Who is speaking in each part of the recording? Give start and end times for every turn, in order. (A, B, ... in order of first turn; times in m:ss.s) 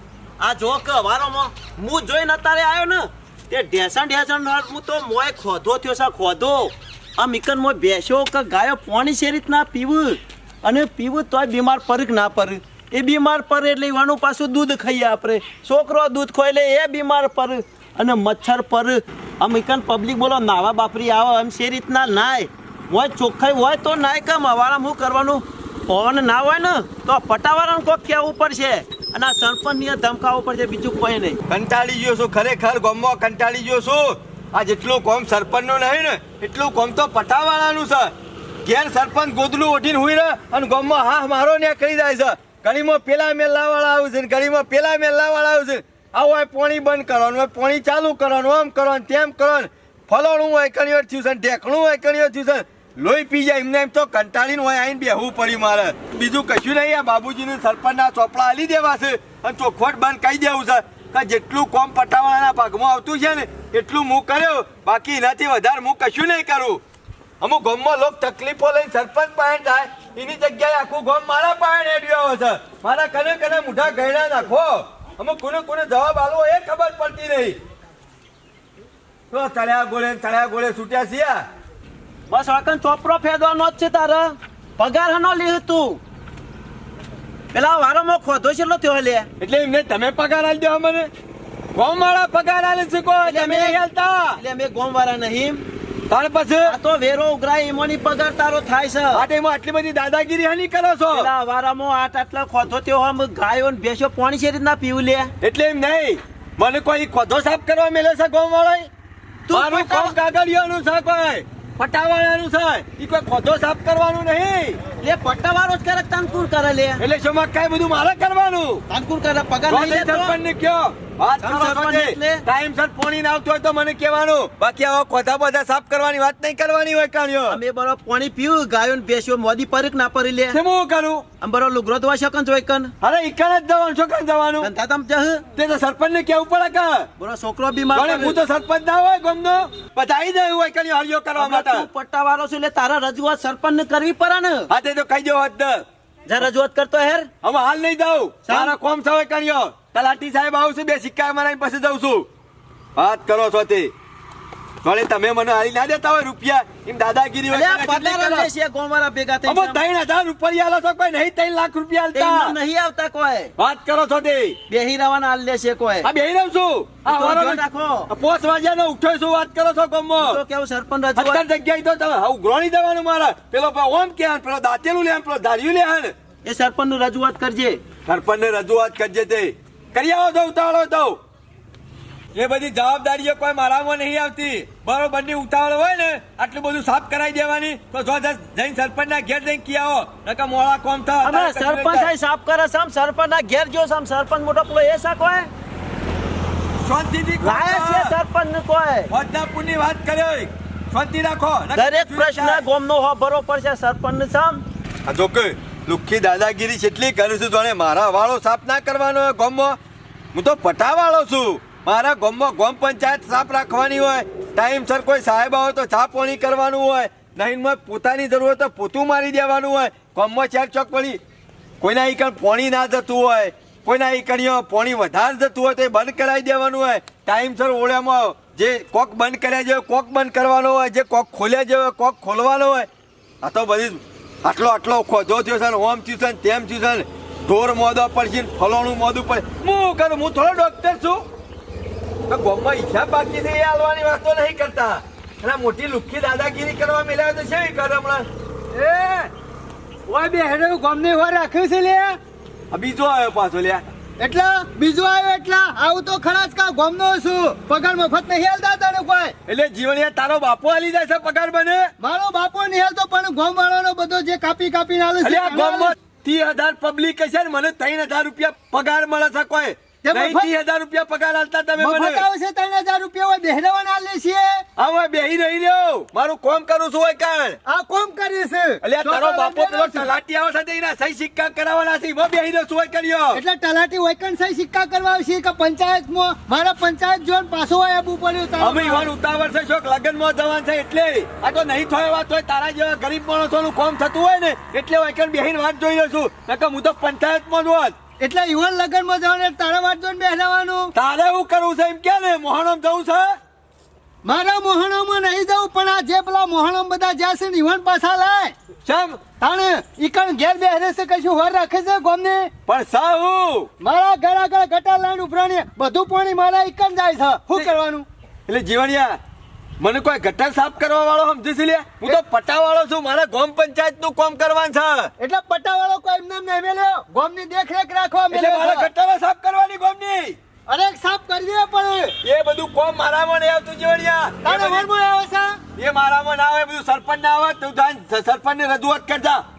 0:00.4-0:31.4 A
0:31.5-0:38.1 B
0:38.6-1:06.8 B
1:07.4-1:17.6 B
1:19.3-1:21.4 B
1:22.3-1:26.0 A
1:27.5-1:29.3 A
1:29.4-1:31.1 B
1:31.7-1:34.4 B
1:33.2-1:33.8 A
1:34.4-1:35.6 A
1:36.1-1:36.8 B
1:36.6-1:39.2 A
1:39.1-1:41.3 B
1:41.1-1:45.3 A
1:45.4-1:48.9 B
1:49.5-1:50.1 A
1:49.5-1:54.8 B
1:54.9-1:57.0 A
1:57.0-1:58.8 B
1:58.9-2:00.4 A
1:59.7-2:07.6 B
2:01.4-2:02.4 A
2:07.5-2:10.6 A
2:10.5-2:11.2 B
2:11.4-2:12.9 A
2:13.0-2:14.7 B
2:14.6-2:15.4 A
2:15.5-2:17.1 B
2:17.2-2:18.4 A
2:17.9-2:21.9 B
2:21.4-2:24.7 A
2:24.7-2:25.8 B
2:26.3-2:27.3 A
2:27.4-2:32.3 B
2:28.4-2:28.7 A
2:33.0-2:33.9 B
2:34.8-2:38.5 B
2:37.5-2:39.8 A
2:39.4-2:42.6 B
2:42.1-2:43.5 A
2:43.6-2:44.6 B
2:44.7-2:46.1 A
2:46.0-2:50.4 B
2:47.0-2:48.1 A
2:50.2-2:51.4 A
2:51.2-2:56.1 B
2:56.4-2:57.8 A
2:58.0-3:01.2 B
3:02.3-3:12.1 B
3:11.2-3:15.5 A
3:16.8-3:18.2 B
3:17.4-3:19.1 A
3:19.1-3:22.6 B
3:21.7-3:24.6 A
3:25.0-3:29.8 B
3:30.3-3:41.2 B
3:41.8-3:52.9 B
3:53.4-4:01.2 B
4:02.3-4:08.3 B
4:08.7-4:09.3 C
4:10.1-4:12.2 C
4:12.7-4:13.8 B
4:14.2-4:19.3 C
4:19.5-4:21.9 B
4:22.0-4:25.9 C
4:25.2-4:32.3 B
4:30.0-4:30.5 C
4:31.8-4:34.6 C
4:34.8-4:37.6 B
4:37.6-4:40.1 C
4:38.8-4:43.4 B
4:43.3-4:49.1 C
4:48.6-4:58.0 B
4:58.2-5:00.9 C
5:00.9-5:03.4 B
5:04.2-5:08.5 C
5:08.8-5:09.2 B
5:09.4-5:12.5 C
5:12.7-5:13.7 B
5:13.8-5:18.1 C
5:18.5-5:19.2 B
5:19.8-5:25.1 B
5:25.2-5:28.9 C
5:28.3-5:30.4 B
5:30.7-5:32.1 C
5:32.2-5:34.9 B
5:34.4-5:35.6 C
5:35.8-5:39.4 B